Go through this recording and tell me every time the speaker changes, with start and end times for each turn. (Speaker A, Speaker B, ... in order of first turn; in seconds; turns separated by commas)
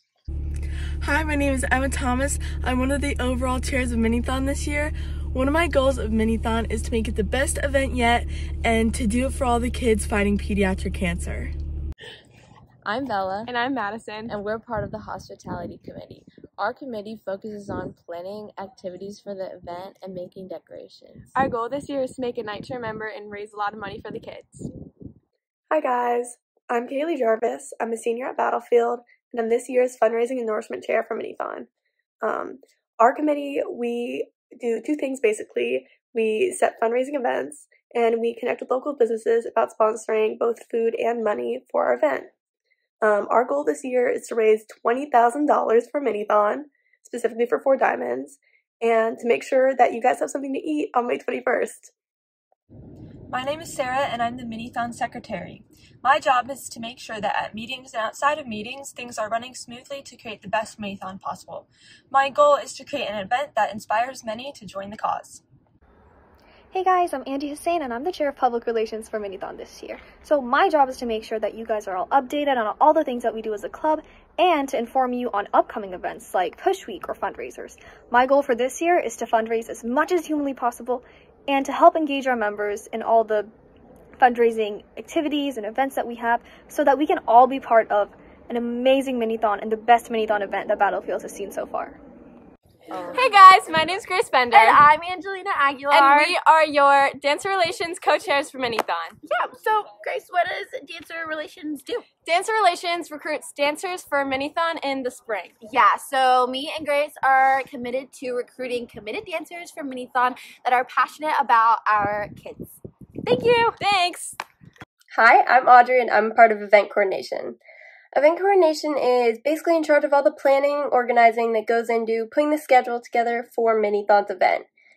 Speaker A: 1.0-11.5, Speaker B: 12.8-13.6, Speaker B: 14.2-21.4, Speaker C: 25.7-31.7, Speaker C: 32.2-42.3, Speaker C: 43.0-51.9, Speaker D: 53.3-65.4, Speaker E: 66.7-83.5, Speaker E: 84.2-92.0, Speaker F: 92.9-93.4, Speaker G: 93.1-94.9, Speaker F: 94.5-96.3, Speaker G: 95.9-99.2, Speaker F: 99.2-102.1, Speaker G: 102.1-105.6, Speaker F: 105.6-112.8, Speaker G: 113.2-114.4, Speaker H: 115.1-117.6, Speaker H: 118.1-124.7